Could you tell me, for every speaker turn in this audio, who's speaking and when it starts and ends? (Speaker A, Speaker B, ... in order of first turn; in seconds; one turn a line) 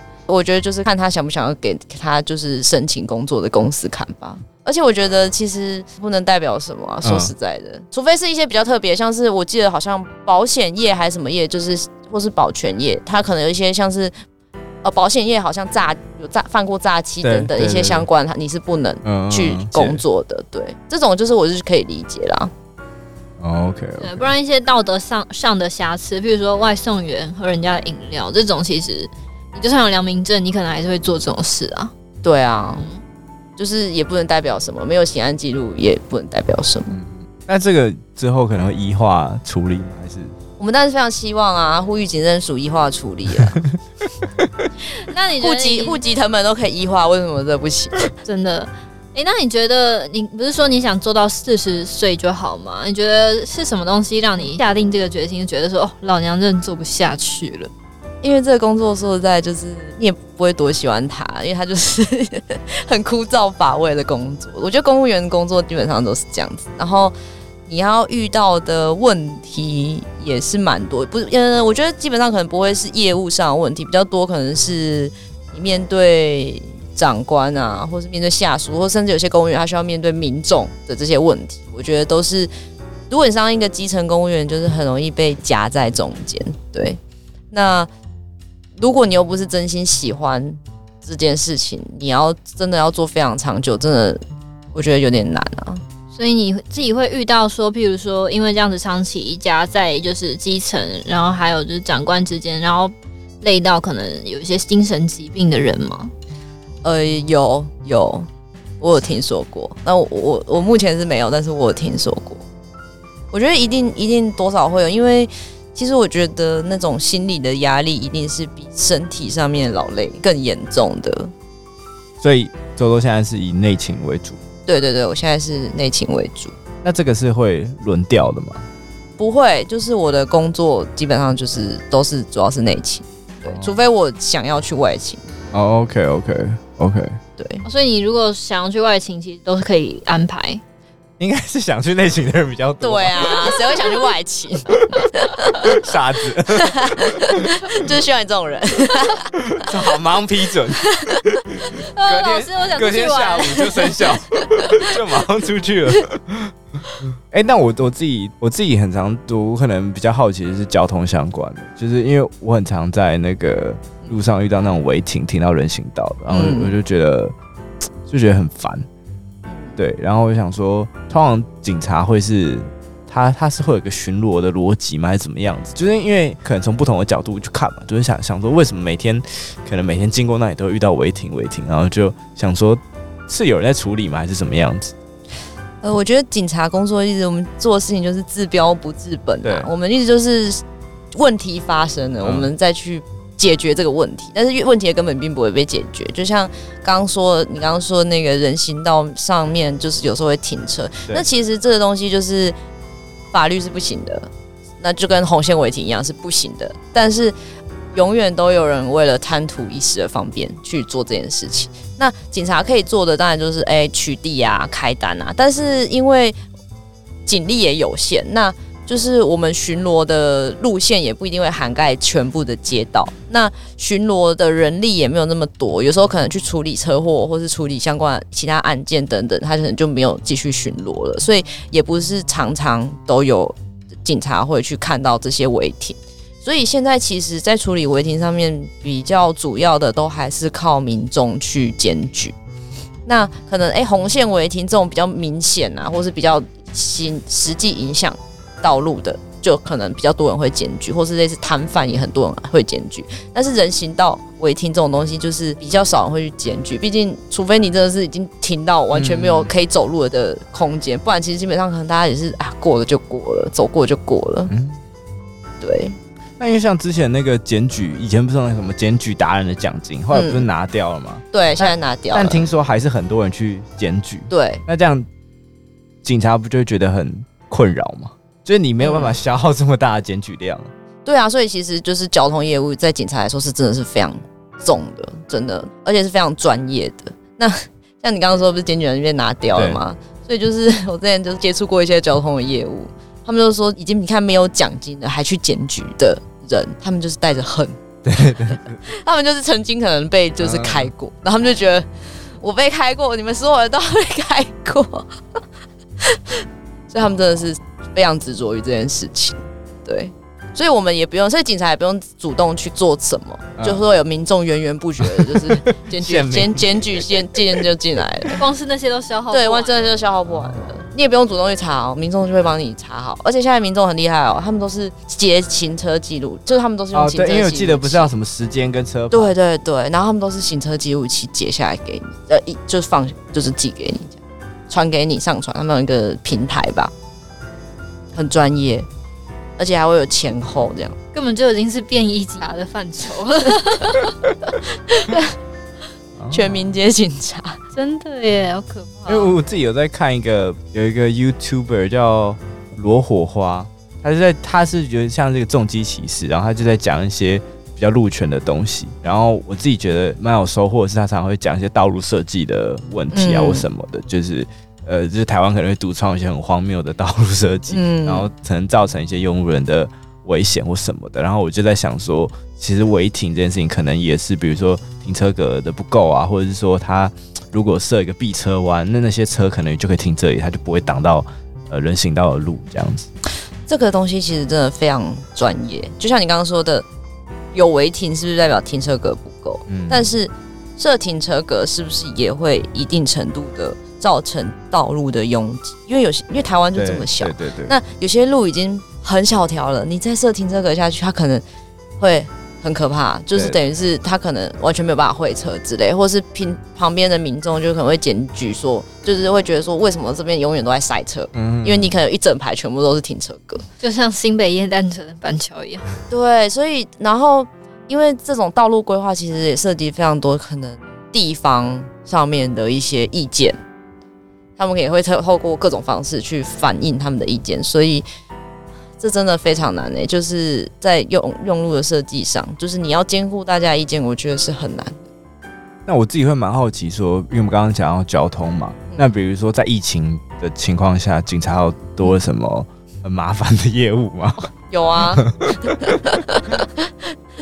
Speaker A: 0.3-14.1
Speaker B: 7.0-7.3
Speaker A: 14.8-22.5
Speaker B: 17.2-18.1
Speaker B: 19.0-20.0
Speaker B: 23.4-24.3
Speaker C: 24.0-31.9
Speaker A: 32.2-32.9
Speaker C: 32.7-33.0
Speaker A: 33.6-37.0
Speaker B: 36.9-40.3
Speaker A: 40.6-43.6
Speaker C: 44.9-46.0
Speaker A: 45.4-48.1
Speaker C: 48.2-57.7
Speaker A: 58.2-67.1
Speaker A: 67.7-82.5
Speaker A: 83.1-87.0
Speaker A: 87.5-87.9
Speaker A: 88.8-94.2
Speaker A: 94.7-95.8
Speaker C: 96.1-106.1
Speaker A: 106.8-108.3
Speaker A: 108.8-112.4
Speaker A: 113.3-121.3
Speaker B: 122.2-124.4
Speaker A: 124.7-126.5
Speaker B: 126.8-128.7
Speaker A: 129.2-135.2
Speaker B: 133.4-133.8
Speaker B: 135.5-137.2
Speaker A: 137.4-137.6
Speaker C: 137.6-140.6
Speaker B: 141.2-143.8
Speaker A: 142.8-145.9
Speaker B: 144.9-147.6
Speaker A: 146.5-149.7
Speaker B: 149.5-151.2
Speaker A: 150.9-151.2
Speaker C: 151.7-154.0
Speaker B: 152.0-167.3
Speaker A: 154.6-154.8
Speaker A: 166.3-166.7
Speaker B: 168.1-168.9
Speaker A: 169.4-169.8
Speaker B: 169.8-184.9
Speaker A: 185.8-202.6
Speaker B: 189.4-189.7
Speaker B: 192.2-192.5
Speaker A: 203.3-204.3
Speaker A: 204.8-207.3
Speaker A: 207.9-216.4
Speaker A: 217.2-242.3
Speaker A: 243.1-264.5
Speaker B: 258.9-259.5
Speaker B: 264.5-264.8
Speaker A: 265.6-266.0
Speaker B: 266.4-275.1
Speaker A: 270.1-270.5
Speaker A: 271.3-272.4
Speaker A: 274.3-274.6
Speaker B: 276.0-280.7
Speaker A: 278.8-279.2
Speaker A: 281.0-297.8
Speaker B: 289.5-289.8
Speaker B: 298.0-298.8
Speaker A: 298.5-305.1
Speaker B: 300.4-300.9
Speaker A: 306.0-318.4
Speaker B: 313.6-313.8
Speaker B: 315.0-317.6
Speaker C: 318.3-319.9
Speaker A: 319.3-328.1
Speaker B: 320.3-320.8
Speaker B: 326.9-329.3
Speaker A: 329.1-336.9
Speaker A: 338.1-338.9
Speaker A: 339.6-340.9
Speaker C: 341.1-344.1
Speaker A: 344.9-345.3
Speaker B: 346.2-346.7
Speaker A: 346.3-347.6
Speaker C: 347.7-349.3
Speaker B: 349.1-383.1
Speaker A: 363.1-363.7
Speaker A: 367.7-368.3
Speaker A: 383.7-386.9
Speaker A: 387.5-401.4
Speaker B: 389.7-390.1
Speaker B: 396.7-397.7
Speaker A: 402.0-413.6
Speaker B: 411.3-411.9
Speaker C: 413.8-415.8
Speaker A: 416.1-423.6
Speaker A: 424.6-428.1
Speaker A: 429.0-435.1
Speaker B: 435.9-446.2
Speaker A: 444.7-446.9